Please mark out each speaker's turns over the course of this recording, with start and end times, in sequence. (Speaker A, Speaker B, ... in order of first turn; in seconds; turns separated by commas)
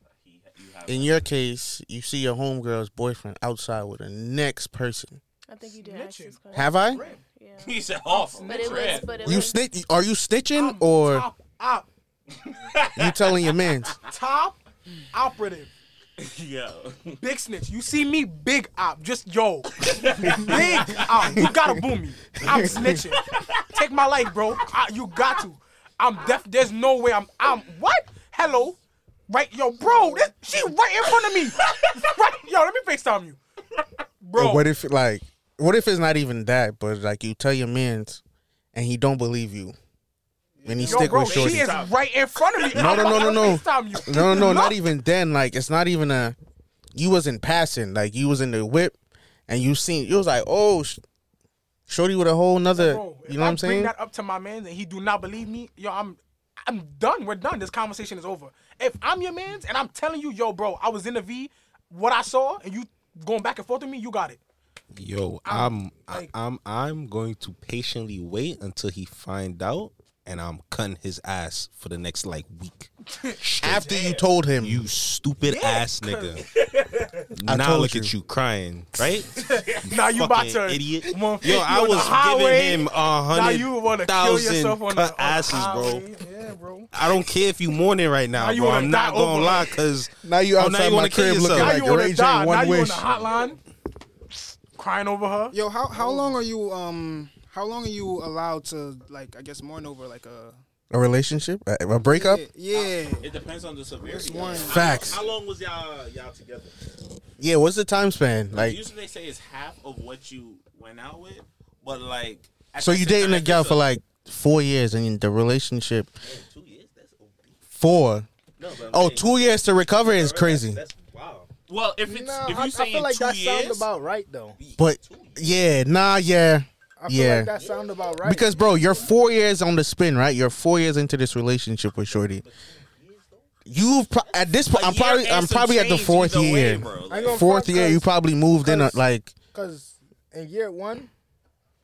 Speaker A: 0.2-1.3, Speaker B: 0.9-5.2, Speaker C: 5.5-7.9, Speaker D: 5.6-7.2, Speaker B: 6.5-7.0, Speaker A: 7.6-9.2, Speaker D: 8.1-9.4, Speaker C: 8.4-9.6, Speaker B: 9.2-11.3, Speaker D: 10.5-11.9, Speaker A: 12.4-14.0, Speaker B: 12.9-13.9, Speaker D: 14.1-14.6, Speaker D: 15.1-15.7, Speaker A: 16.2-17.2, Speaker D: 17.2-28.8, Speaker A: 19.8-21.5, Speaker B: 22.5-22.9, Speaker A: 22.5-23.9, Speaker A: 25.1-25.4, Speaker D: 29.3-33.4, Speaker A: 31.2-32.2, Speaker D: 34.2-34.7, Speaker B: 34.4-38.2, Speaker B: 38.7-39.8, Speaker E: 40.6-41.3, Speaker B: 40.6-41.7, Speaker D: 40.8-44.8, Speaker A: 41.1-43.6, Speaker B: 42.7-46.4, Speaker B: 46.9-49.0, Speaker B: 49.5-51.0, Speaker B: 51.9-53.9, Speaker D: 52.7-64.4, Speaker F: 64.9-73.8, Speaker D: 65.4-66.3, Speaker D: 73.2-73.9, Speaker B: 73.6-74.8, Speaker A: 73.8-74.2, Speaker F: 74.6-76.4, Speaker D: 75.4-76.4, Speaker A: 76.5-77.3, Speaker F: 77.3-79.3, Speaker B: 77.5-78.1, Speaker A: 79.3-79.9, Speaker D: 79.6-86.9, Speaker F: 79.9-86.0, Speaker F: 86.9-91.8, Speaker D: 88.3-89.8, Speaker B: 90.2-93.0, Speaker D: 91.5-93.6, Speaker D: 94.7-96.3, Speaker E: 95.5-100.6, Speaker B: 100.9-102.4, Speaker E: 102.0-103.3, Speaker A: 102.7-106.8, Speaker E: 104.0-105.0, Speaker B: 104.7-105.2, Speaker F: 104.7-105.4, Speaker B: 107.4-108.8, Speaker A: 108.5-113.8, Speaker B: 112.8-116.1, Speaker A: 116.2-117.5, Speaker B: 117.7-118.3, Speaker A: 118.6-123.9, Speaker F: 118.6-121.4, Speaker B: 118.9-120.8, Speaker G: 122.0-124.6, Speaker F: 124.6-125.3, Speaker A: 124.7-125.3, Speaker B: 124.8-127.5, Speaker G: 127.0-129.0, Speaker B: 128.2-132.4, Speaker A: 132.1-133.4, Speaker B: 133.7-139.3, Speaker A: 134.3-137.4, Speaker G: 137.1-139.0, Speaker G: 139.5-141.1